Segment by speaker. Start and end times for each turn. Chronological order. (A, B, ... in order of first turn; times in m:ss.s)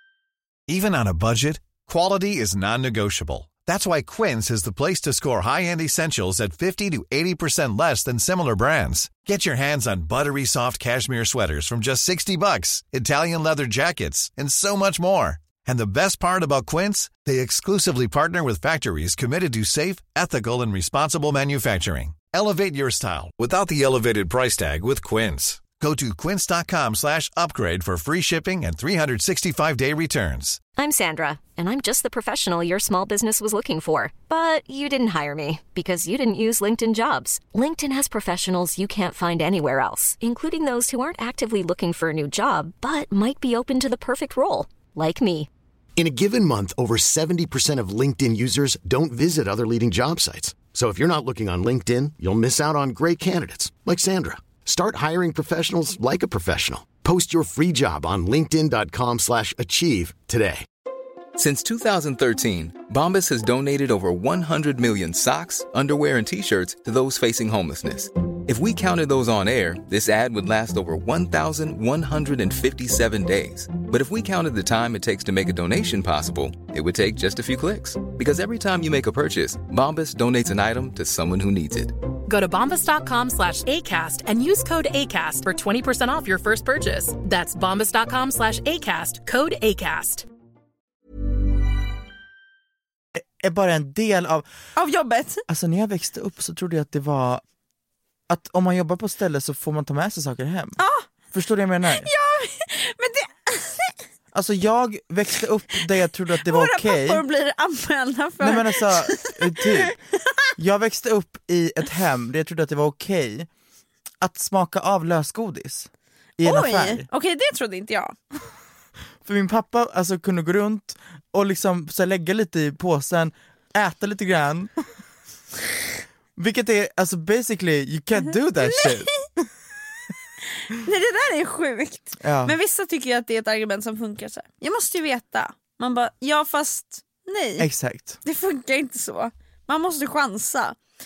0:00.7-0:30.6 A
0:30.7-0:45.5 B
0:46.0-1:00.6 C
1:01.4-1:22.0 D
1:22.2-1:30.2 E
1:33.1-1:34.5 F
1:34.8-1:35.4 G
1:35.5-1:37.4 F
1:38.3-1:40.8 F
1:40.8-1:41.1 G
1:41.3-1:42.1 F
1:42.0-1:44.0 G
1:44.3-1:47.2 F
1:46.4-1:49.9 G
1:48.4-1:49.9 F
1:50.6-1:53.5 F
1:54.2-1:57.1 F
1:56.4-1:58.2 G
1:59.2-2:04.7 F
2:06.4-2:09.5 F
2:08.6-2:08.9 G
2:10.7-2:17.7 G
2:12.2-2:12.6 F
2:17.6-2:18.2 F
2:18.2-2:20.8 G